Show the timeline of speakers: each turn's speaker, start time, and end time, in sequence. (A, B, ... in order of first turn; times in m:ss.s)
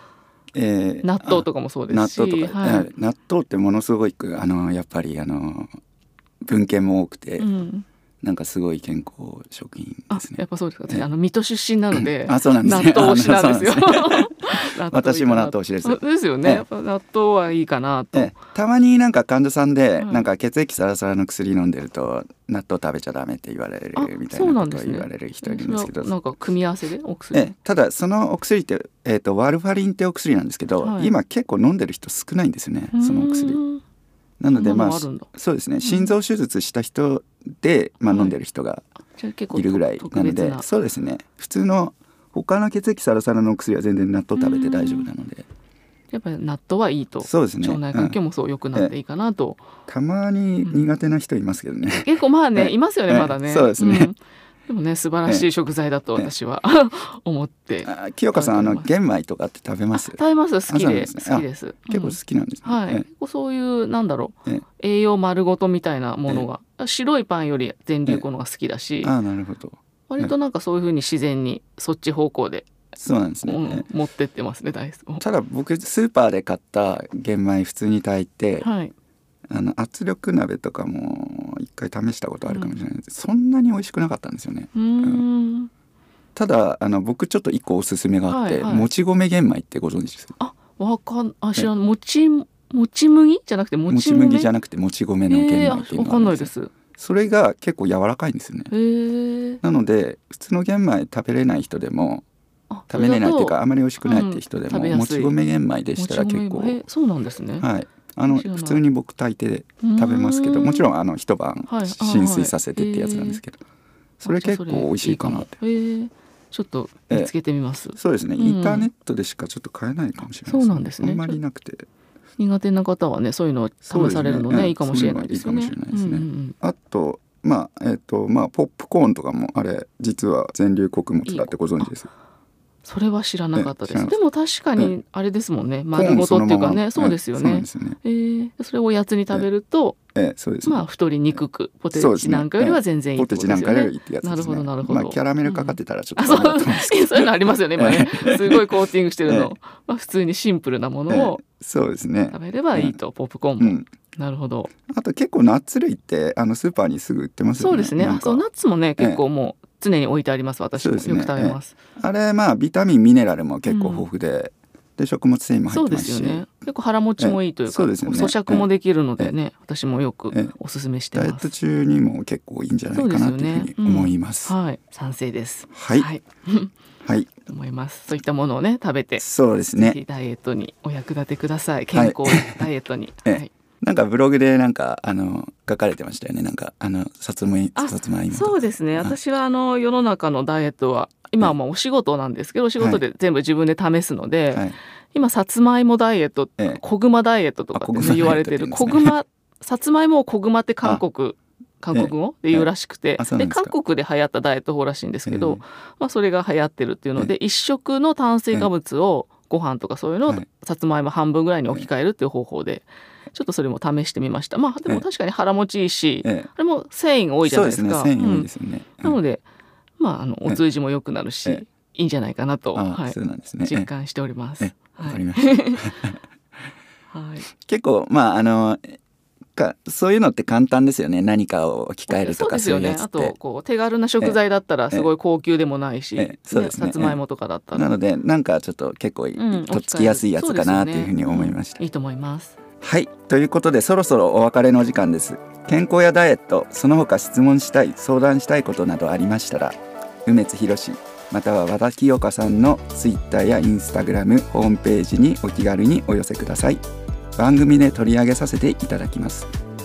0:00.5-0:05.7 A
0:01.0-0:02.9 B
0:06.4-0:07.5 A
0:07.4-0:07.9 B
0:08.2-0:11.1 A
0:10.1-0:18.4 B
0:11.9-0:16.6 A
0:18.1-0:26.1 A
0:20.0-0:20.3 B
0:24.0-0:27.5 B
0:27.3-0:33.6 A
0:30.8-0:31.1 B
0:32.9-0:33.8 B
0:34.4-0:38.8 A
0:34.5-0:35.3 B
0:35.8-0:36.2 B
0:38.1-0:38.4 B
0:39.2-0:40.7 B
0:39.5-0:45.5 A
0:44.4-0:45.1 B
0:46.1-0:49.6 B
0:47.2-0:48.2 A
0:49.9-0:54.1 A
0:52.0-0:58.9 B
0:57.8-1:03.0 A
0:59.9-1:09.1 B
1:09.0-1:10.3 A
1:10.1-1:12.7 B
1:13.0-1:13.9 A
1:13.4-1:15.2 B
1:15.2-1:18.7 A
1:18.6-1:18.9 B
1:19.5-1:25.2 A
1:22.5-1:22.7 B
1:24.7-1:25.7 B
1:26.4-1:30.4 A
1:28.3-1:28.9 B
1:30.4-1:34.5 B
1:33.9-1:38.7 A
1:35.3-1:36.7 B
1:38.7-1:39.6 B
1:39.6-1:42.2 A
1:42.7-1:45.4 B
1:42.9-1:46.8 A
1:46.0-1:47.7 B
1:47.6-1:53.6 A
1:48.3-1:48.8 B
1:49.8-1:50.9 B
1:51.7-1:53.4 B
1:54.2-1:55.6 A
1:54.2-1:58.9 B
1:58.0-2:01.9 A
2:00.4-2:01.4 B
2:02.4-2:06.6 B
2:03.8-2:12.1 A
2:11.3-2:11.9 B
2:12.8-2:20.0 B
2:13.6-2:14.2 A
2:15.9-2:18.0 A
2:20.2-2:20.8 A
2:20.6-2:31.4 B
2:21.9-2:29.5 A
2:31.1-2:33.0 A
2:32.3-2:34.7 B
2:33.6-2:33.9 A
2:34.9-2:38.4 A
2:37.6-2:41.7 B
2:40.8-2:46.4 A
2:43.7-2:44.1 B
2:45.7-2:51.5 B
2:47.2-2:48.7 A
2:51.1-2:54.6 A
2:52.9-2:56.7 B
2:55.7-2:56.1 A
2:57.0-2:57.3 A
2:57.5-2:59.2 B
2:59.2-3:00.0 A
2:59.8-3:03.5 B
3:01.9-3:02.7 A
3:03.3-3:09.2 A
3:07.8-3:39.4 B
3:17.8-3:19.2 A
3:21.9-3:23.7 A
3:25.3-3:25.6 A
3:36.2-3:36.5 A
3:37.4-3:39.2 A
3:40.0-3:45.8 B
3:42.8-3:43.9 A
3:44.6-3:46.2 A
3:47.1-3:47.5 B
3:47.6-3:49.0 A
3:49.6-3:53.3 A
3:52.1-3:57.9 B
3:56.2-3:57.2 A
3:57.7-4:01.8 A
3:59.4-4:02.6 B
4:02.8-4:16.8 A
4:17.4-4:19.5 A